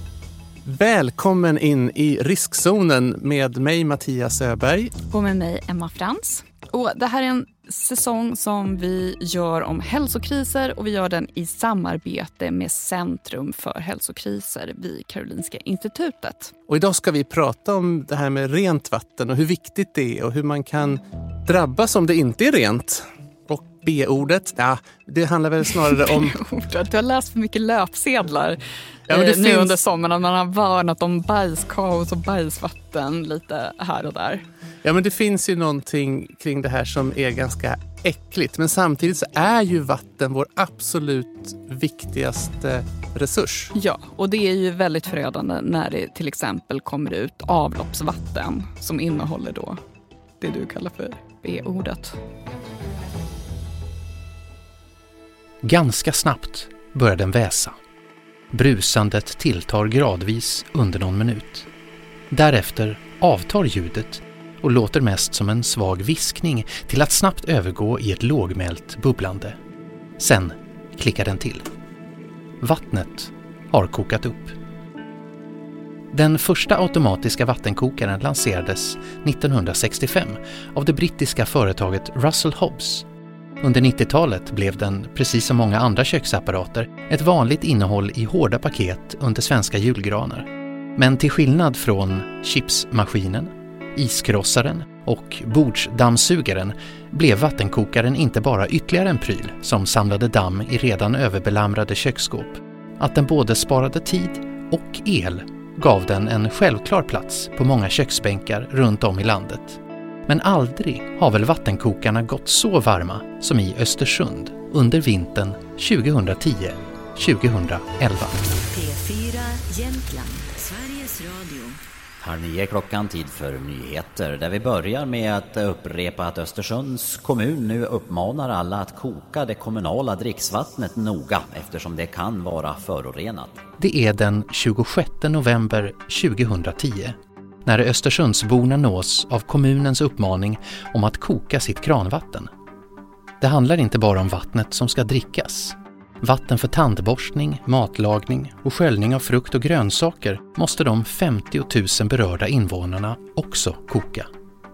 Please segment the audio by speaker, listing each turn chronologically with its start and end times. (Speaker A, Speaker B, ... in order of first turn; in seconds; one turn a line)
Speaker A: 0.7-4.9
Speaker B: 5.1-16.5
Speaker A: 16.7-26.4
Speaker B: 25.9-34.4
Speaker A: 29.1-29.8
Speaker A: 34.8-43.7
Speaker B: 43.8-49.8
Speaker B: 50.4-52.2
Speaker C: 55.6-57.8
Speaker C: 58.5-61.7
Speaker C: 62.3-69.6
Speaker C: 70.2-71.7
Speaker C: 72.6-74.6
Speaker C: 76.1-83.1
Speaker C: 83.6-118.4
Speaker D: 118.7-121.8
Speaker E: 122.2-133.6
Speaker C: 133.8-142.5
Speaker C: 143.4-154.3